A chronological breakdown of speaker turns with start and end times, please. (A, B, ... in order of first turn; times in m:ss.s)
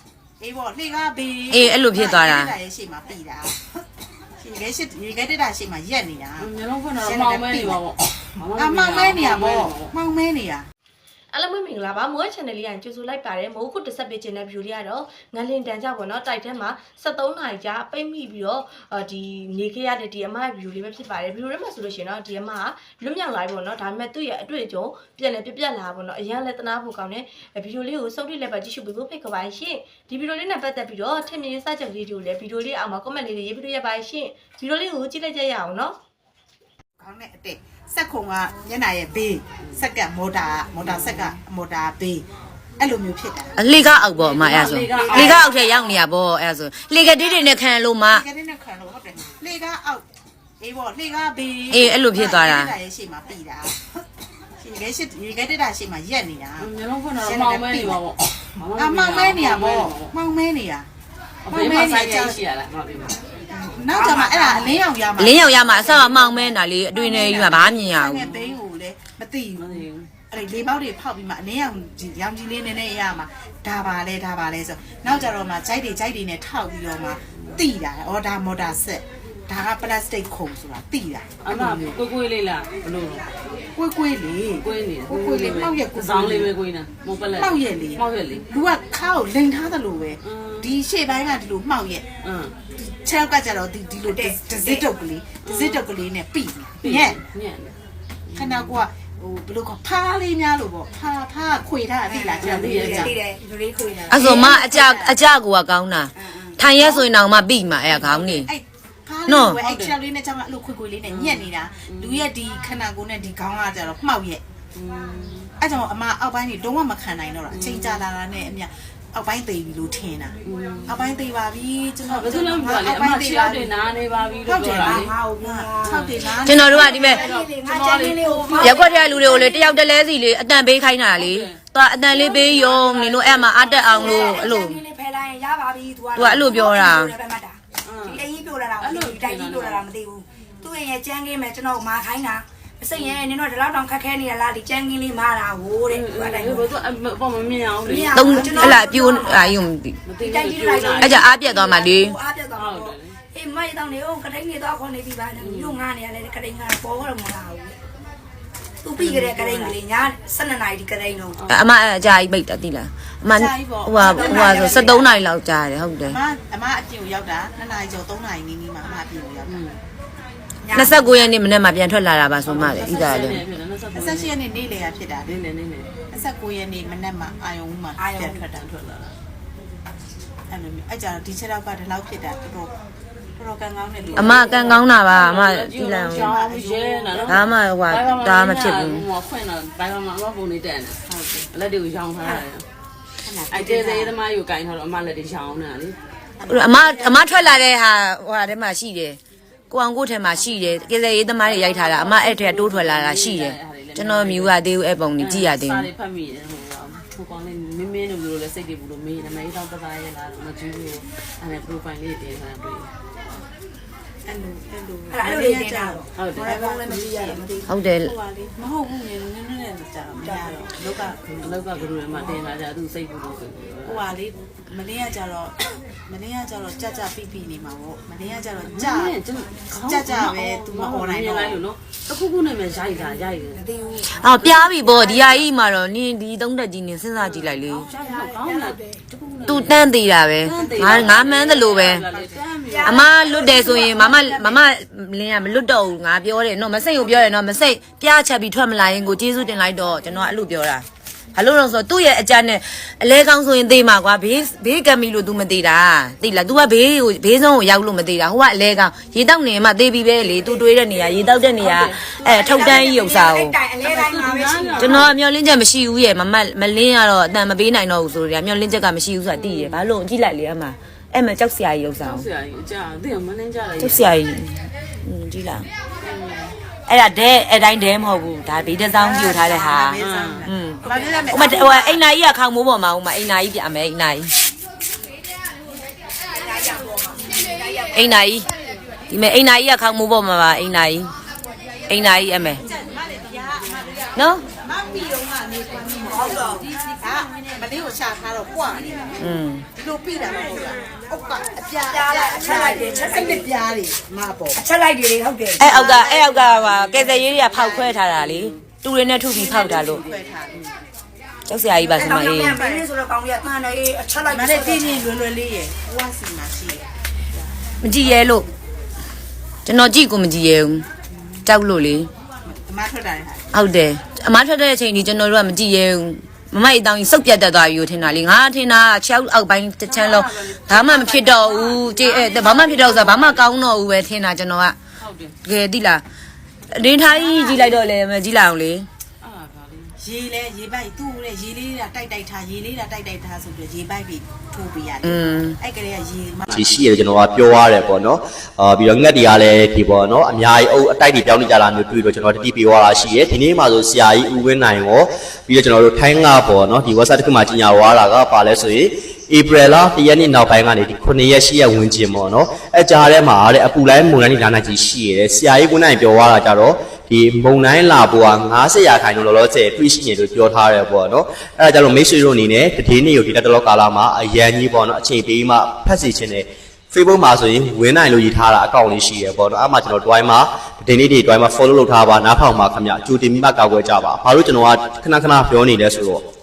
0:00.4-0:03.7 A
0:01.5-0:02.5 B
0:04.4-0:07.8 A
0:06.4-0:09.9 C
0:08.5-0:10.6 A
0:11.3-0:36.0 D
0:37.0-0:42.2 A
0:40.8-0:41.3 C
0:42.8-0:43.6 A
0:43.6-0:48.2 B
0:44.2-0:45.5 C
0:44.9-0:46.0 A
0:47.0-0:47.6 A
0:48.1-0:50.0 A
0:50.6-0:53.8 A
0:51.7-0:52.7 B
0:54.6-0:58.0 A
0:56.6-1:00.1 C
0:58.7-1:00.9 A
1:01.4-1:03.2 C
1:01.5-1:02.4 A
1:03.5-1:21.9 A
1:03.9-1:04.8 E
1:05.2-1:08.2 B
1:08.2-1:08.6 C
1:09.6-1:10.1 C
1:21.4-1:23.4 C
1:23.7-1:26.5 A
1:24.6-1:28.4 C
1:27.4-1:32.0 A
1:30.2-1:30.7 C
1:32.2-1:32.5 C
1:32.7-1:37.2 A
1:34.1-1:34.8 E
1:35.4-1:35.8 C
1:36.8-1:37.7 C
1:38.3-1:38.8 C
1:38.3-1:43.1 A
1:42.0-1:44.3 E
1:42.4-1:43.1 C
1:43.9-1:45.2 A
1:44.1-1:48.5 B
1:46.1-1:46.6 E
1:46.7-1:47.1 A
1:47.9-1:54.4 A
1:49.3-1:49.6 B
1:49.6-1:49.9 C
1:51.1-1:52.2 C
1:54.7-1:55.5 C
1:55.6-2:03.7 A
1:57.5-1:58.0 C
2:00.4-2:00.9 C
2:02.1-2:05.1 C
2:04.4-2:07.3 A
2:04.8-2:06.1 E
2:06.4-2:07.2 B
2:06.7-2:09.8 E
2:06.8-2:08.8 C
2:08.6-2:14.8 B
2:11.2-2:11.6 C
2:12.1-2:12.6 E
2:12.4-2:14.2 C
2:13.7-2:26.8 E
2:16.1-2:17.1 B
2:17.8-2:18.2 C
2:18.8-2:19.8 C
2:25.9-2:28.8 C
2:27.8-2:29.6 E
2:28.1-2:30.0 B
2:30.0-2:31.3 C
2:30.2-2:37.8 E
2:31.0-2:32.2 B
2:32.5-2:33.1 C
2:35.4-2:35.9 C
2:38.8-2:41.4 E
2:39.0-2:39.8 C
2:41.5-2:46.2 B
2:43.3-2:45.2 A
2:44.0-2:44.8 E
2:46.0-2:49.6 A
2:49.4-2:49.8 C
2:50.6-2:51.3 E
2:50.7-2:53.4 B
2:52.4-2:54.3 C
2:53.9-2:55.4 A
2:55.3-2:55.9 C
2:56.1-2:58.6 A
2:58.0-2:58.4 E
2:58.5-2:59.2 C
3:00.5-3:02.7 A
3:03.4-3:04.8 A
3:04.2-3:06.3 B
3:04.2-3:12.6 C
3:06.0-3:07.4 A
3:07.3-3:09.0 B
3:11.1-3:11.4 A
3:13.2-3:14.1 A
3:13.5-3:16.0 C
3:16.4-3:17.7 A
3:16.4-3:19.2 B
3:19.7-3:25.9 B
3:21.4-3:24.5 C
3:25.2-3:32.9 C
3:34.2-3:42.4 A
3:35.1-3:36.1 E
3:36.2-3:37.1 C
3:36.9-3:37.7 E
3:37.7-3:38.1 B
3:40.2-3:40.5 E
3:41.4-3:44.0 C
3:43.8-3:49.1 A
3:48.7-3:53.6 C
3:49.7-3:51.6 A
3:53.5-3:55.3 E
3:54.1-3:57.8 B
3:57.2-3:59.9 C
3:58.0-3:58.8 E
3:59.4-4:02.0 B
4:00.4-4:03.2 C
4:00.6-4:01.3 A
4:02.6-4:04.6 E
4:02.8-4:23.5 B
4:20.9-4:22.0 C
4:22.0-4:25.1 E
4:23.8-4:25.1 C
4:24.8-4:32.2 B
4:29.3-4:29.8 C
4:32.0-4:34.1 C
4:33.8-4:35.7 B
4:36.0-4:36.5 C
4:36.9-4:44.3 B
4:38.8-4:42.0 A
4:40.0-4:40.4 C
4:46.4-4:48.1 E
4:47.9-4:48.5 B
4:49.1-4:51.1 B
4:51.9-4:52.6 B
4:52.6-5:04.6 A
4:54.2-4:54.4 B
4:56.1-4:56.6 E
4:59.2-4:59.6 B
5:01.8-5:03.5 E
5:04.5-5:06.0 E
5:05.6-5:10.0 B
5:05.6-5:08.0 A
5:08.2-5:08.6 C
5:09.3-5:10.6 A
5:11.5-5:12.6 B
5:11.8-5:12.8 A
5:11.9-5:14.9 E
5:14.3-5:16.9 A
5:17.8-5:18.5 B
5:19.6-5:20.8 B
5:21.4-5:22.1 B
5:22.4-5:23.4 A
5:23.5-5:34.8 B
5:29.8-5:33.5 C
5:35.0-5:35.4 C
5:35.4-5:36.0 B
5:36.7-5:38.9 B
5:37.1-5:37.7 C
5:39.2-5:40.0 C
5:40.0-5:46.6 A
5:45.0-5:45.5 B
5:46.5-6:26.2 F